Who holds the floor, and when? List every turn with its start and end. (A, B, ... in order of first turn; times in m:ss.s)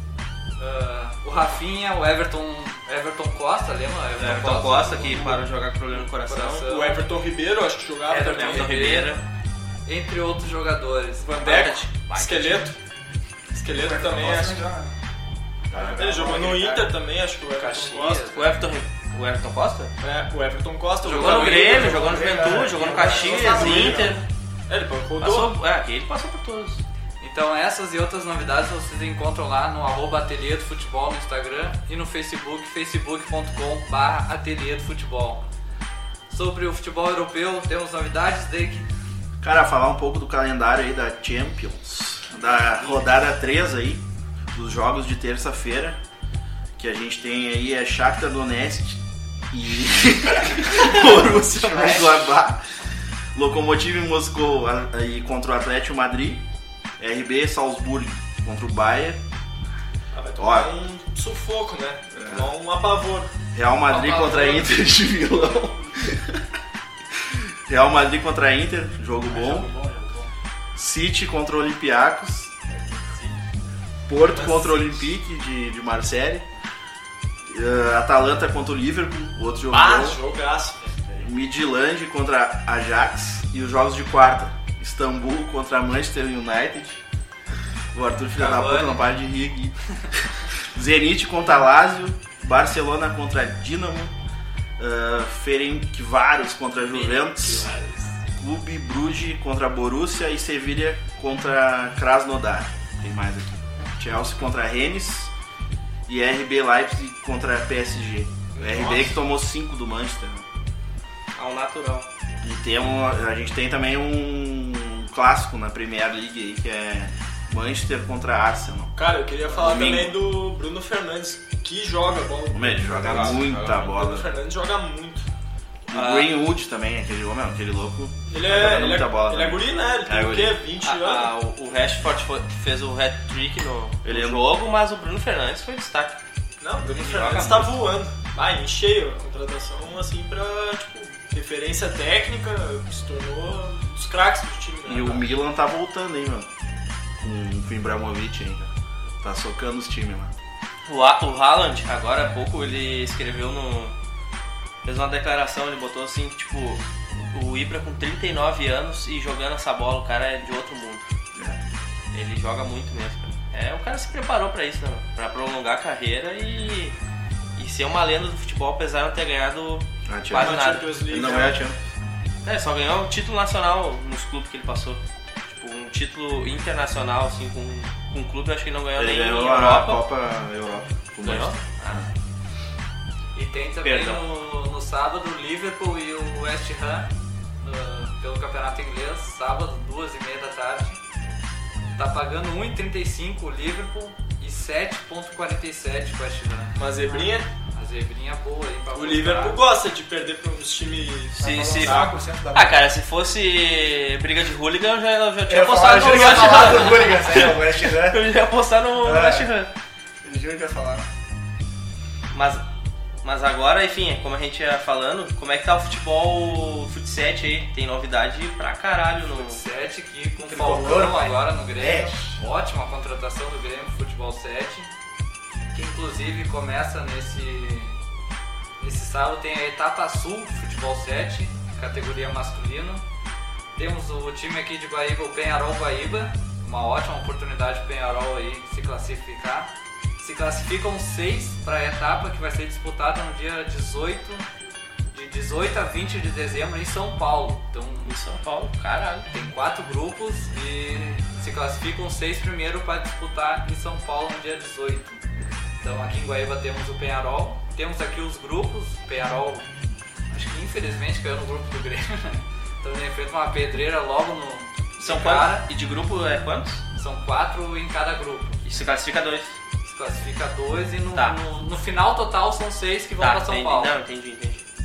0:00.6-0:05.4 A
0:04.2-0:06.7 B
0:06.3-0:07.1 A
0:06.7-0:08.7 C
0:08.1-0:09.2 A
0:08.3-0:09.2 B
0:09.9-0:12.7 A
0:11.2-0:12.8 C
0:11.4-0:11.7 B
0:13.5-0:14.6 C
0:13.7-0:14.9 D
0:15.7-0:16.7 E
0:15.8-0:16.9 D
0:16.0-0:18.3 C
0:17.6-0:18.7 A
0:18.2-0:19.9 B
0:20.0-0:25.5 C
0:21.0-0:24.2 B
0:21.2-0:22.2 A
0:21.5-0:24.2 D
0:25.2-0:26.8 B
0:27.2-0:35.4 A
0:36.3-0:38.9 A
0:39.4-0:44.0 E
0:42.7-0:43.0 A
0:44.5-0:46.0 E
0:46.8-0:52.6 E
0:53.4-0:56.4 E
0:57.0-0:59.2 E
1:00.1-1:03.3 C
1:00.4-1:00.8 E
1:02.2-1:02.5 E
1:03.5-1:06.4 E
1:03.9-1:04.8 A
1:07.3-1:09.7 E
1:09.3-1:10.3 D
1:10.8-1:12.6 E
1:14.1-1:16.5 E
1:14.3-1:15.1 C
1:17.5-1:20.2 E
1:19.7-1:20.8 C
1:21.2-1:27.0 E
1:27.9-1:29.8 E
1:28.4-1:29.0 A
1:30.7-1:34.1 E
1:34.8-1:37.7 E
1:38.4-1:45.3 E
1:46.1-1:50.4 E
1:48.6-1:49.2 C
1:51.4-1:52.1 B
1:52.4-1:58.9 E
1:59.0-2:05.3 C
1:59.5-2:00.2 E
2:02.5-2:04.4 E
2:03.0-2:03.5 B
2:05.9-2:10.6 E
2:05.9-2:06.3 B
2:08.3-2:11.3 C
2:10.8-2:16.2 B
2:14.0-2:14.5 E
2:16.6-2:25.3 C
2:16.9-2:17.7 A
2:17.3-2:17.6 B
2:24.8-2:26.5 E
2:27.2-2:28.7 E
2:29.2-2:30.3 E
2:30.9-2:34.0 B
2:34.8-2:41.1 B
2:42.1-2:47.0 B
2:47.6-2:50.9 B
2:50.1-2:51.8 E
2:50.3-2:51.6 C
2:52.4-3:00.0 B
2:59.0-3:02.1 E
3:01.2-3:01.6 B
3:03.4-3:07.1 A
3:03.8-3:04.2 B
3:07.6-3:11.0 A
3:12.0-3:19.6 A
3:16.8-3:17.5 C
3:18.9-3:22.2 C
3:21.4-3:22.8 D
3:21.4-3:29.7 B
3:25.5-3:28.2 D
3:26.0-3:27.1 A
3:29.0-3:29.5 D
3:30.2-3:31.1 D
3:32.3-3:32.6 B
3:33.2-3:39.6 B
3:39.2-3:44.9 A
3:40.4-3:42.4 D
3:45.8-3:48.0 A
3:48.8-3:53.0 A
3:53.8-4:04.4 A
4:05.1-4:08.1 A
4:08.1-4:09.3 B
4:09.3-4:15.2 A
4:15.8-4:19.7 A
4:20.3-4:25.7 A
4:25.0-4:26.8 B
4:27.0-4:28.6 A
4:28.6-4:29.6 B
4:29.8-4:34.0 A
4:33.2-4:34.6 B